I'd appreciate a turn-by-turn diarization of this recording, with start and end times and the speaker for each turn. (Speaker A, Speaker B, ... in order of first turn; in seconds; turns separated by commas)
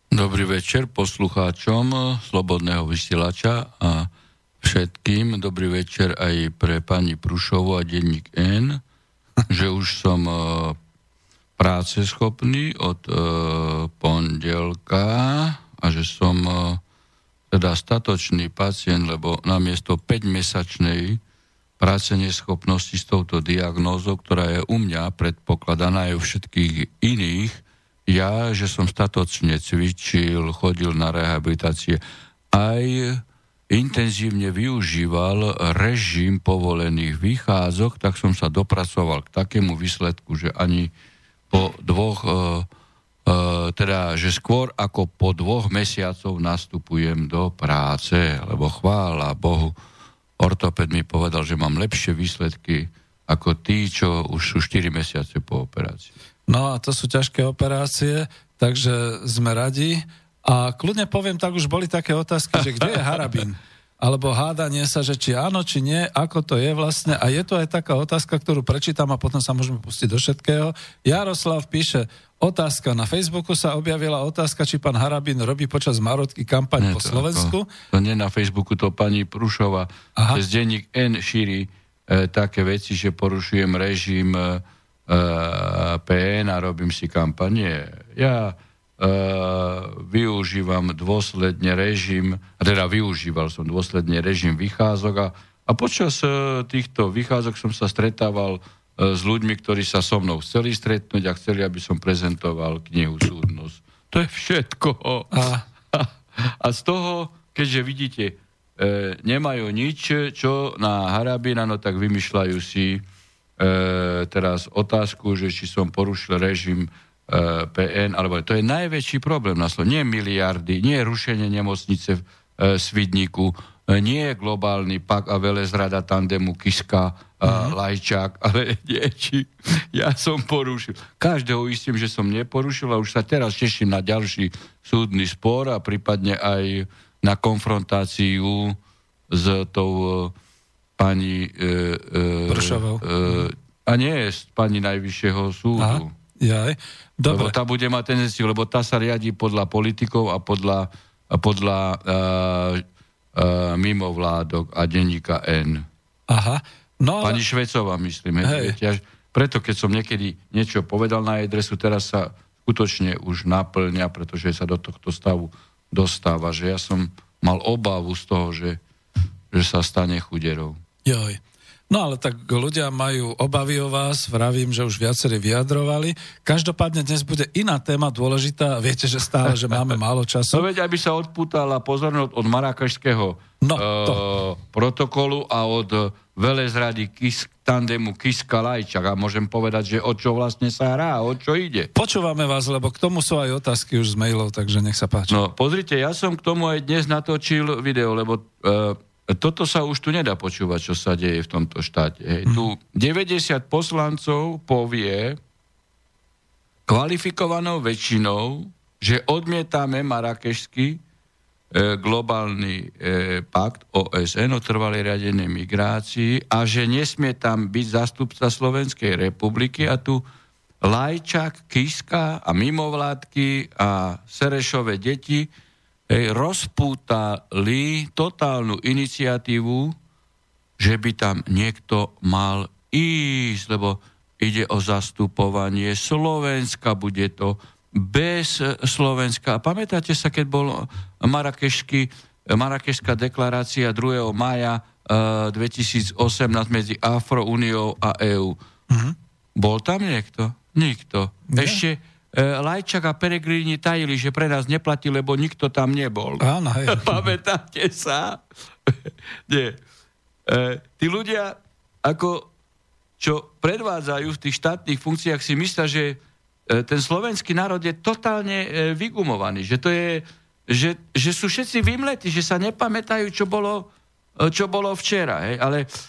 Speaker A: 0.1-4.1, Speaker A: 4.6-8.8, Speaker A: 9.5-10.8, Speaker A: 11.6-16.8, Speaker A: 17.5-21.2, Speaker A: 21.8-32.0, Speaker A: 32.5-40.9, Speaker A: 41.5-42.7, Speaker A: 43.3-49.8, Speaker A: 50.4-56.1, Speaker B: 56.5-77.7, Speaker A: 62.6-62.9, Speaker A: 76.8-113.0, Speaker B: 80.2-80.4, Speaker B: 105.3-105.6, Speaker A: 113.6-138.8, Speaker B: 127.5-127.8, Speaker A: 139.3-140.3, Speaker A: 141.0-146.1, Speaker B: 142.5-143.4, Speaker B: 145.8-147.5, Speaker A: 147.3-152.8, Speaker A: 153.3-155.9, Speaker B: 156.3-157.4, Speaker A: 157.2-168.8, Speaker B: 158.4-158.8, Speaker A: 169.5-170.8, Speaker B: 171.1-180.7, Speaker A: 179.4-179.9, Speaker A: 180.5-191.9, Speaker B: 183.6-184.2, Speaker B: 191.9-195.4, Speaker A: 195.3-205.4, Speaker A: 206.9-211.0, Speaker A: 211.7-220.2, Speaker A: 220.8-225.5, Speaker A: 226.1-229.9, Speaker A: 230.8-248.6, Speaker B: 248.9-249.2, Speaker A: 249.6-258.4, Speaker B: 251.5-251.8, Speaker B: 256.4-257.3, Speaker A: 259.5-259.8, Speaker A: 260.5-262.5, Speaker A: 263.2-275.9